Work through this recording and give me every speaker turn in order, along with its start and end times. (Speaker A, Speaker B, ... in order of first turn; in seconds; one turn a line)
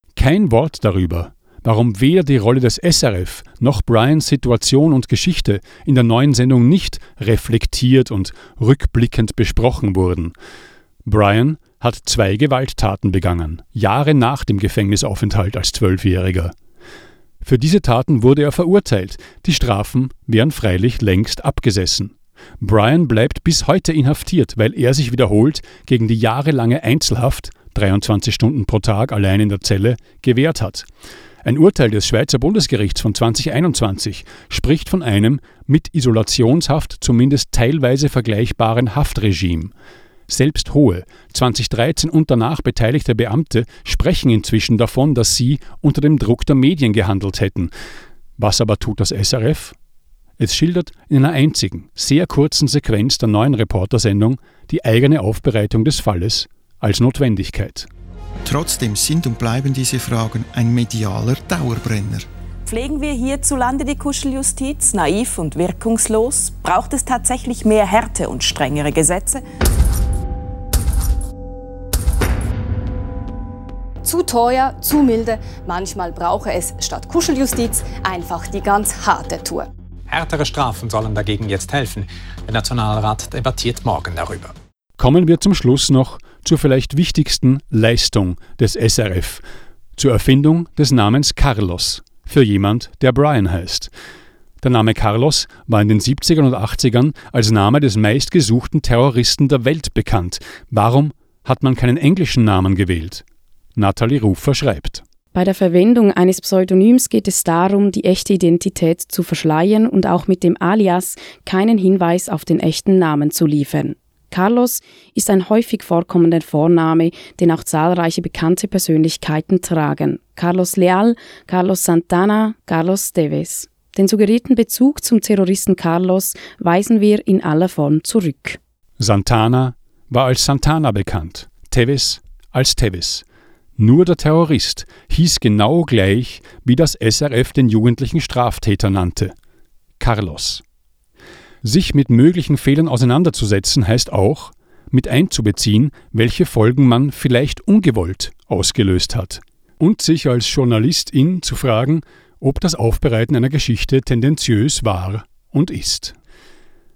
Speaker A: 0.1-10.3
Speaker A: 11.1-16.5
Speaker A: 17.4-30.9
Speaker A: 31.4-39.7
Speaker A: 40.3-47.7
Speaker A: 48.4-49.8
Speaker A: 50.4-57.9
Speaker B: 58.5-62.3
Speaker C: 62.7-69.4
Speaker D: 74.0-79.7
Speaker E: 80.1-84.5
Speaker A: 85.0-89.4
Speaker A: 90.0-93.9
Speaker A: 94.6-103.2
Speaker A: 103.8-105.0
Speaker F: 105.3-128.6
Speaker A: 129.0-133.2
Speaker A: 133.8-139.3
Speaker A: 140.0-140.6
Speaker A: 141.6-156.2